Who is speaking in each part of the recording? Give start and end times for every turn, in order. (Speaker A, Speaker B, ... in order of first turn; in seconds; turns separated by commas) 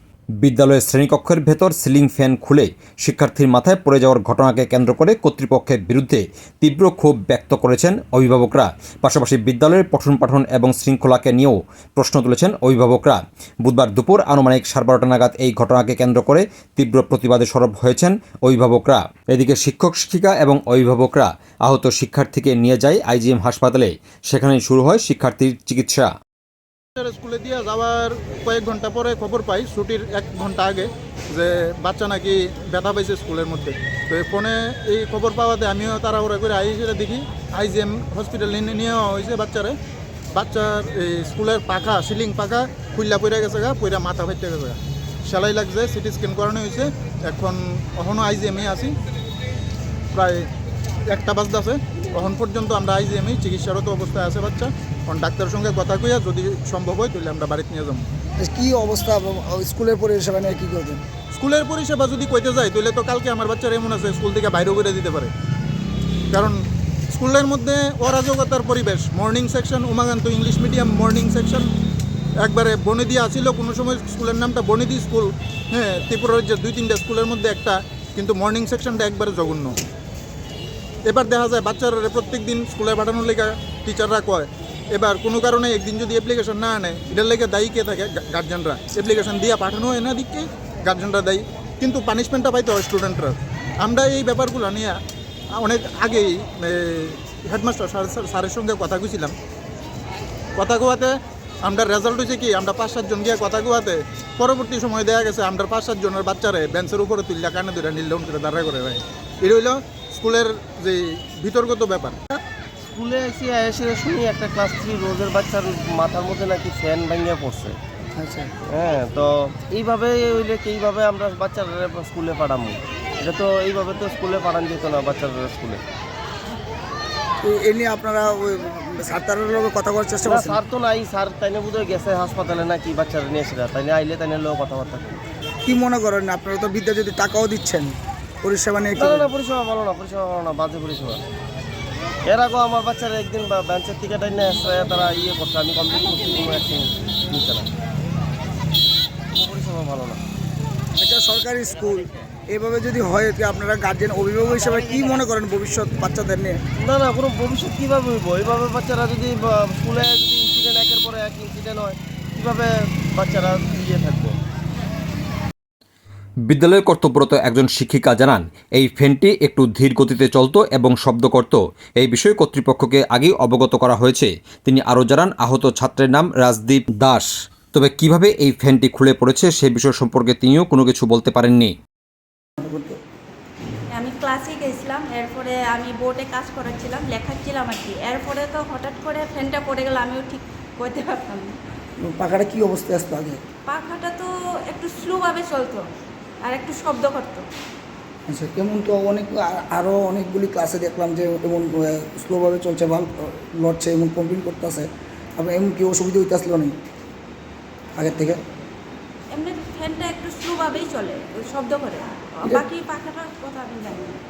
Speaker A: 0.4-26.1, Speaker B: 27.0-39.8, Speaker B: 40.3-48.9, Speaker B: 50.1-50.5, Speaker B: 51.1-58.0, Speaker C: 58.4-61.0, Speaker B: 61.3-65.3, Speaker B: 66.3-66.6, Speaker B: 67.1-71.7, Speaker B: 72.4-79.8, Speaker B: 81.1-95.0, Speaker B: 95.6-99.3, Speaker B: 100.6-112.2, Speaker D: 112.9-117.8, Speaker C: 118.2-118.5, Speaker D: 118.7-125.8, Speaker C: 127.4-130.6, Speaker D: 130.2-135.2, Speaker C: 135.6-139.3, Speaker D: 139.0-141.2, Speaker D: 142.3-147.7, Speaker D: 149.3-150.2, Speaker C: 151.0-156.6, Speaker D: 156.8-164.4, Speaker A: 166.5-181.7, Speaker C: 182.6-183.0, Speaker E: 183.9-191.6, Speaker C: 192.0-193.4, Speaker E: 193.7-195.9, Speaker E: 196.4-197.5, Speaker C: 198.3-206.7, Speaker C: 208.0-208.4, Speaker E: 209.3-214.2